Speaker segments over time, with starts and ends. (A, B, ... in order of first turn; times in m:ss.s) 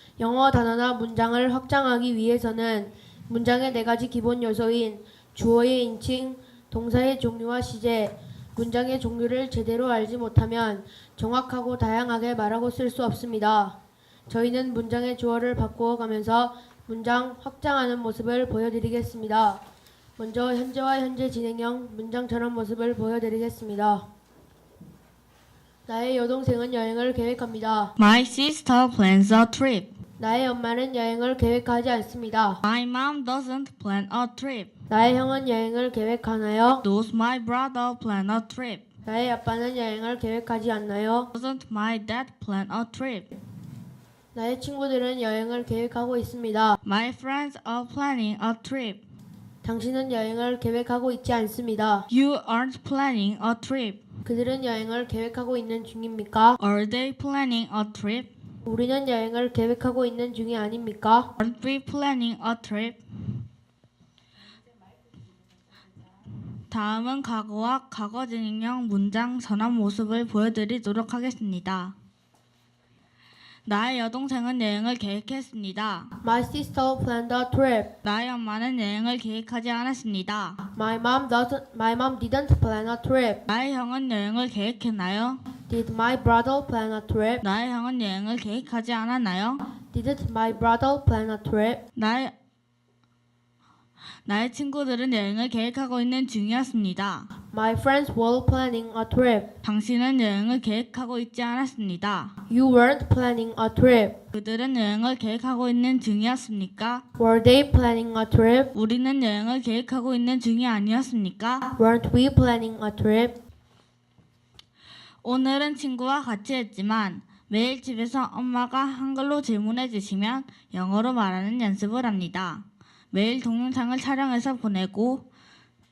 0:00.2-0:13.8 A
0:14.3-0:19.6 A
0:20.2-0:24.0 A
0:25.9-0:27.9 A
0:28.0-0:29.9 B
0:30.2-0:32.6 A
0:32.6-0:34.7 B
0:34.9-0:36.8 A
0:36.8-0:38.8 B
0:39.0-0:41.3 A
0:41.3-0:43.3 B
0:44.3-0:46.8 A
0:46.8-0:49.0 B
0:49.6-0:52.1 A
0:52.1-0:54.0 B
0:54.2-0:56.6 A
0:56.6-0:58.3 B
0:58.6-1:01.3 A
1:01.4-1:03.4 B
1:06.5-1:11.9 B
1:13.6-1:16.1 B
1:16.2-1:17.9 A
1:18.0-1:20.6 B
1:20.7-1:23.4 A
1:23.5-1:25.4 B
1:25.7-1:27.4 A
1:27.4-1:29.6 B
1:29.9-1:31.8 A
1:32.0-1:32.3 B
1:34.2-1:37.3 B
1:37.5-1:39.4 A
1:39.6-1:42.3 B
1:42.5-1:44.1 A
1:44.3-1:47.0 B
1:47.2-1:48.7 A
1:48.7-1:51.7 B
1:51.8-1:53.3 A
1:55.2-2:05.2 B